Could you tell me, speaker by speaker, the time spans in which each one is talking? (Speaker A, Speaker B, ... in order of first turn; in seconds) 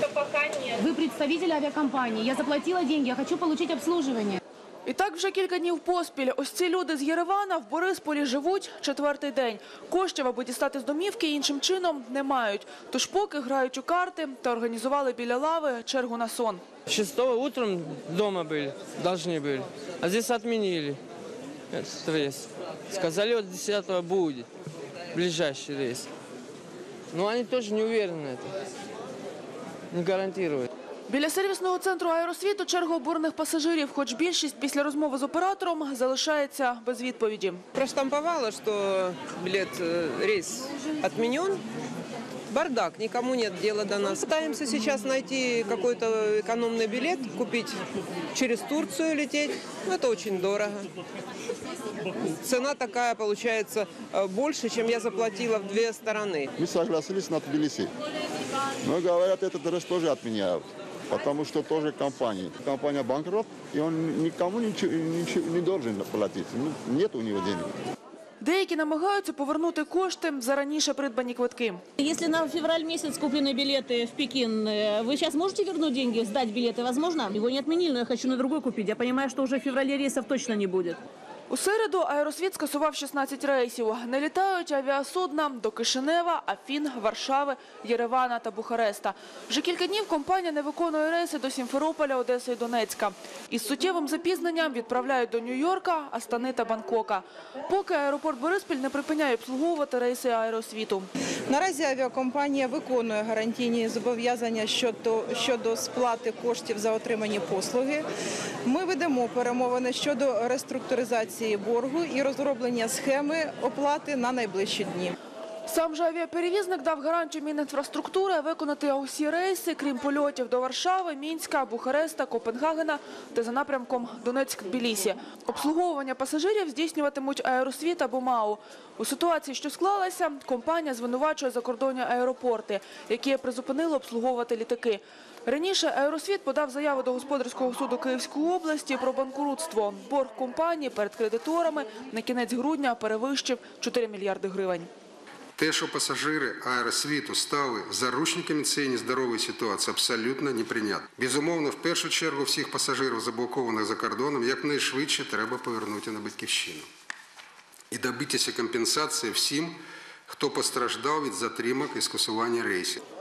Speaker A: 0.2-4.4
Speaker B: 4.8-16.6, 31.1-37.6, 68.4-71.8, 81.5-101.1, 115.7-144.9
Speaker C: 16.9-21.0, 21.7-24.5, 25.1-26.1, 27.1-28.5, 29.9-30.7
Speaker D: 37.8-41.6, 42.5-47.8, 48.3-50.9, 52.4-56.5
Speaker E: 56.6-57.9, 58.8-67.7
Speaker F: 72.0-81.0
Speaker G: 101.5-108.0, 108.7-115.2
Speaker H: 145.6-156.9, 157.9-159.8, 160.3-163.0